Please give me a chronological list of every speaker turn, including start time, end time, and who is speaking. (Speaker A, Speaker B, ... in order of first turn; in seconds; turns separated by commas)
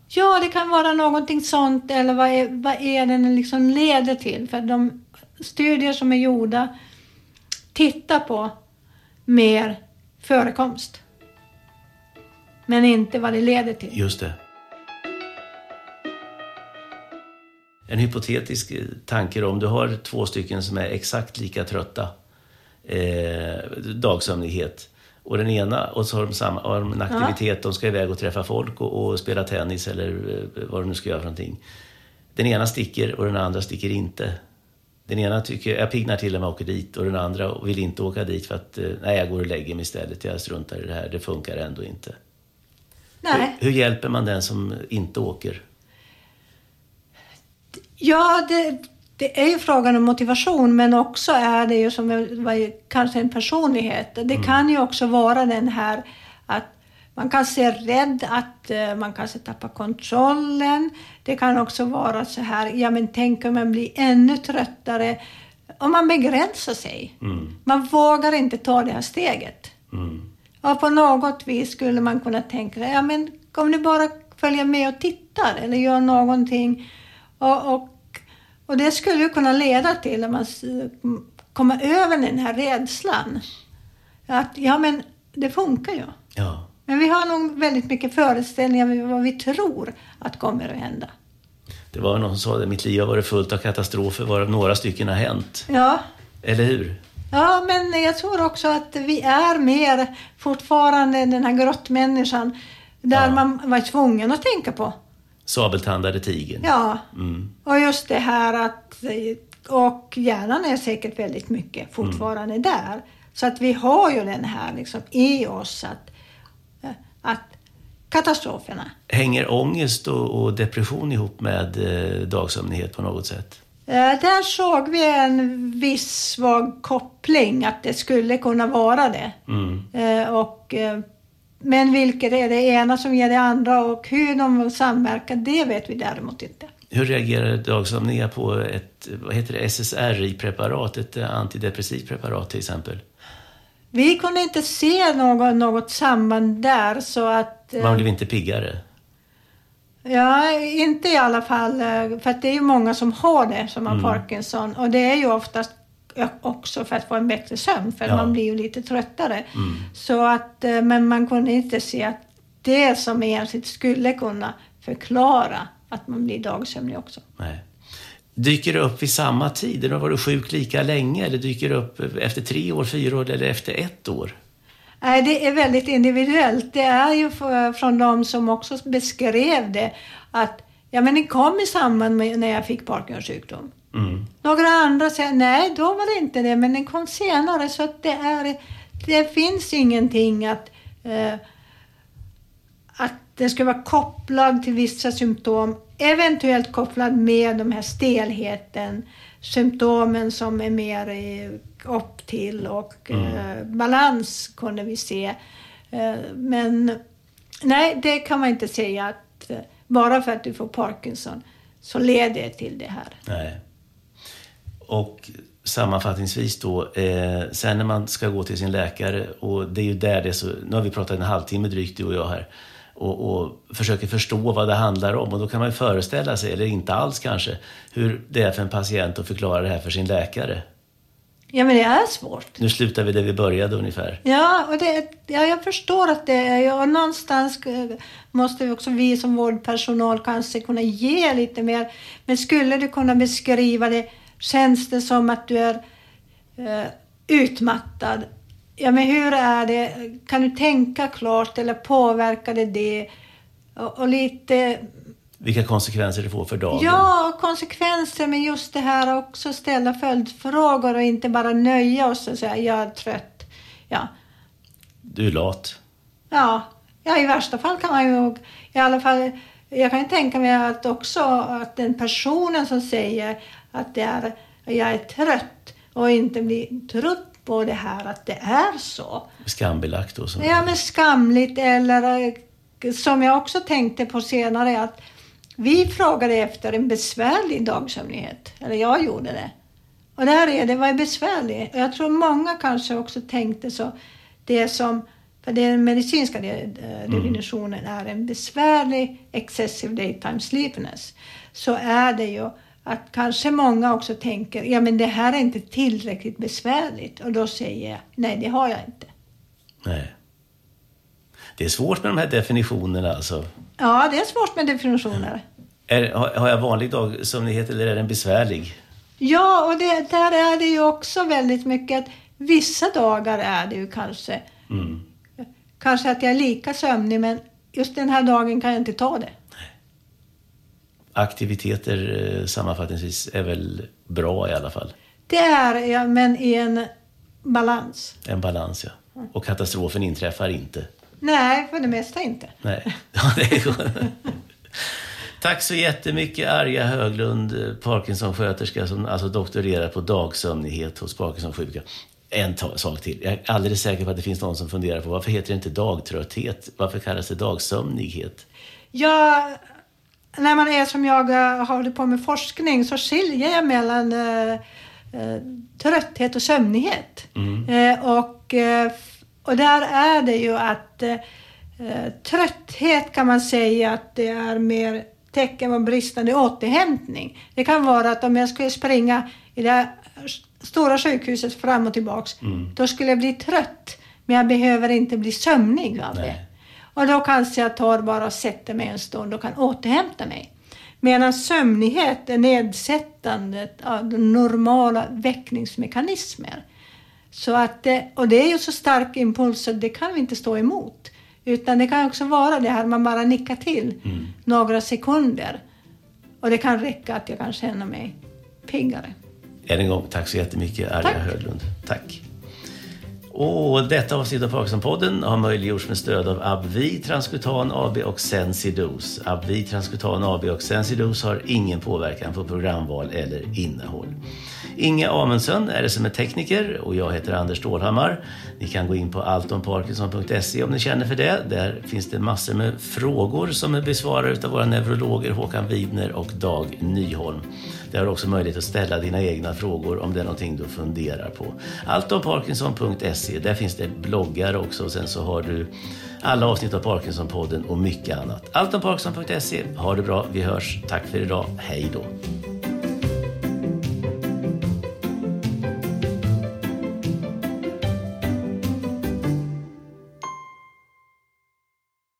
Speaker A: 0.1-6.7, Speaker A: 7.7-8.5, Speaker A: 9.3-11.0, Speaker A: 12.7-14.0, Speaker B: 13.9-14.4, Speaker B: 17.9-22.1, Speaker B: 22.9-31.6, Speaker A: 27.1-27.4, Speaker B: 32.4-34.4, Speaker B: 35.1-42.1, Speaker A: 43.2-43.6, Speaker B: 43.3-45.6, Speaker A: 48.0-65.2, Speaker A: 65.8-69.7, Speaker B: 67.2-67.5, Speaker B: 69.9-70.3, Speaker A: 70.6-76.8, Speaker A: 77.4-83.5, Speaker A: 84.3-86.2, Speaker B: 86.3-86.7, Speaker A: 86.9-91.1, Speaker B: 91.9-95.7, Speaker A: 95.7-96.0, Speaker B: 96.4-97.0, Speaker A: 97.3-102.5, Speaker A: 103.0-104.9, Speaker B: 103.1-103.4, Speaker B: 105.5-107.5, Speaker A: 106.6-107.0, Speaker A: 107.7-116.1, Speaker A: 116.8-117.6, Speaker A: 118.1-118.9, Speaker B: 119.1-123.6, Speaker A: 123.9-129.4, Speaker B: 129.5-129.9, Speaker A: 129.9-131.0, Speaker A: 131.6-136.7, Speaker B: 136.9-143.0, Speaker A: 143.9-148.1, Speaker B: 147.8-148.8, Speaker A: 150.1-167.2, Speaker B: 153.9-154.2, Speaker B: 158.1-158.3, Speaker B: 159.5-159.9, Speaker B: 167.4-167.7, Speaker B: 168.4-174.4, Speaker A: 175.0-183.7, Speaker B: 183.9-184.3, Speaker A: 184.4-191.4, Speaker A: 193.0-205.3, Speaker B: 203.1-203.4, Speaker A: 205.9-207.0, Speaker A: 207.6-213.2, Speaker B: 213.3-213.6, Speaker B: 214.9-230.7, Speaker A: 231.5-232.6, Speaker B: 232.6-234.2, Speaker A: 234.2-245.8, Speaker A: 246.6-248.3, Speaker A: 248.8-253.1, Speaker A: 253.8-254.9, Speaker B: 255.4-257.1, Speaker A: 256.7-264.1, Speaker B: 265.0-265.8, Speaker A: 266.3-279.3, Speaker B: 279.4-280.7, Speaker A: 280.4-285.0, Speaker A: 285.6-289.5, Speaker A: 290.2-293.9, Speaker A: 294.5-309.1, Speaker B: 297.1-297.4, Speaker B: 309.8-310.1, Speaker B: 311.6-313.5, Speaker A: 313.8-315.4, Speaker B: 315.9-318.8, Speaker A: 319.2-324.5, Speaker B: 324.7-325.0, Speaker A: 325.8-329.4, Speaker B: 331.1-334.9, Speaker A: 335.3-336.9, Speaker A: 337.4-338.2, Speaker B: 338.2-340.9, Speaker A: 341.2-342.6, Speaker B: 342.6-344.2, Speaker B: 344.8-358.4, Speaker A: 358.9-359.6, Speaker A: 360.4-364.6, Speaker A: 365.1-371.2, Speaker B: 367.4-367.7, Speaker A: 371.8-386.4, Speaker B: 382.4-382.7, Speaker B: 386.1-386.4, Speaker A: 386.9-390.5, Speaker A: 391.0-396.6, Speaker A: 397.3-405.6, Speaker A: 406.4-408.1, Speaker A: 408.7-409.1, Speaker B: 409.7-412.2, Speaker B: 413.3-424.2, Speaker B: 424.8-452.1